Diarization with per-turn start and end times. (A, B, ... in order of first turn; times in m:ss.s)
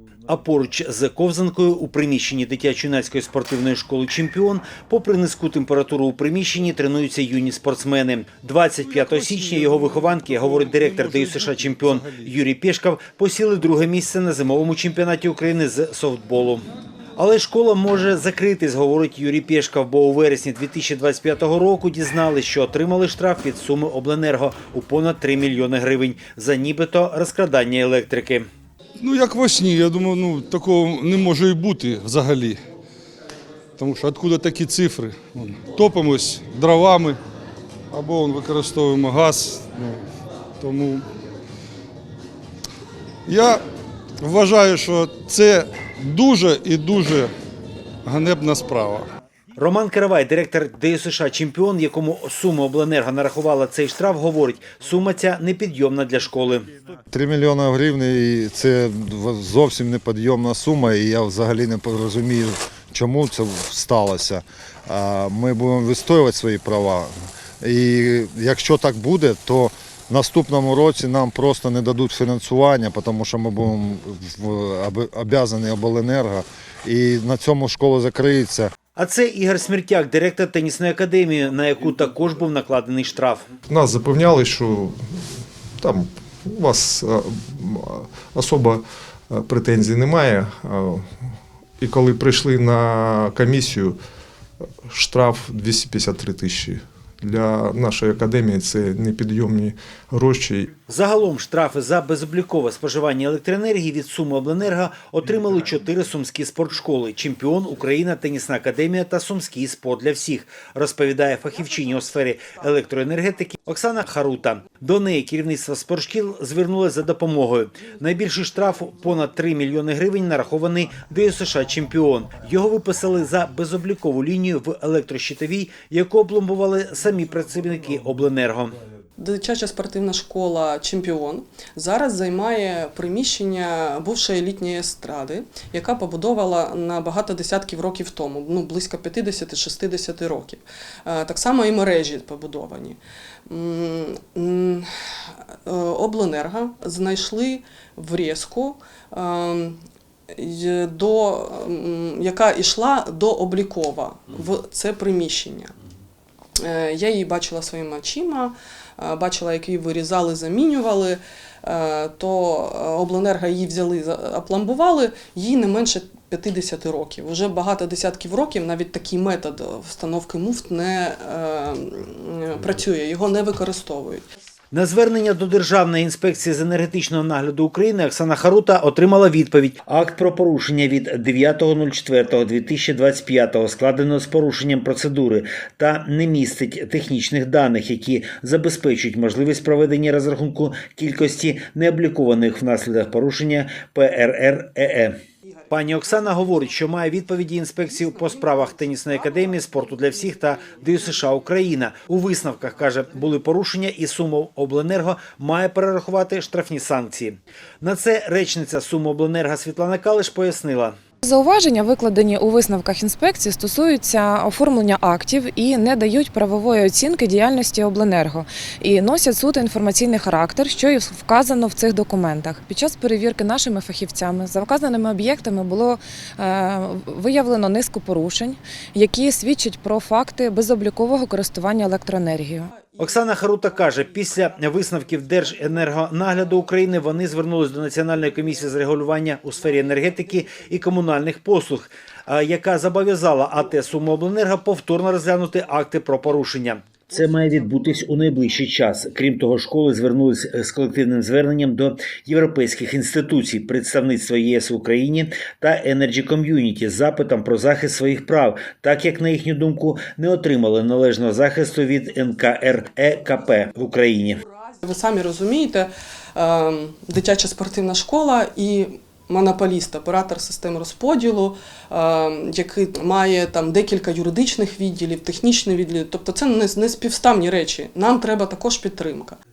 0:00.3-0:16.6 A
0:08.8-0:12.3 B
0:17.2-0:28.5 A
0:29.0-0:32.6 B
0:33.8-0:37.2 B
0:37.9-0:40.0 B
0:40.6-0:41.1 B
0:43.3-0:43.6 B
0:44.2-0:47.3 B
0:48.0-0:49.1 B
0:49.6-0:56.7 A
0:57.1-1:18.7 C
1:19.0-1:23.5 A
1:23.7-1:25.0 D
1:25.8-1:31.1 D
1:31.8-1:34.0 D
1:34.9-1:40.7 D
1:40.9-2:08.8 A
2:09.2-2:24.9 E
2:25.7-2:29.8 E
2:30.4-2:35.7 E
2:36.6-2:54.2 E
2:54.7-3:15.2 A
3:15.7-3:31.0 A
3:31.2-3:52.7 F
3:52.7-3:54.8 E
3:53.0-4:24.4 A
4:24.8-4:39.4 E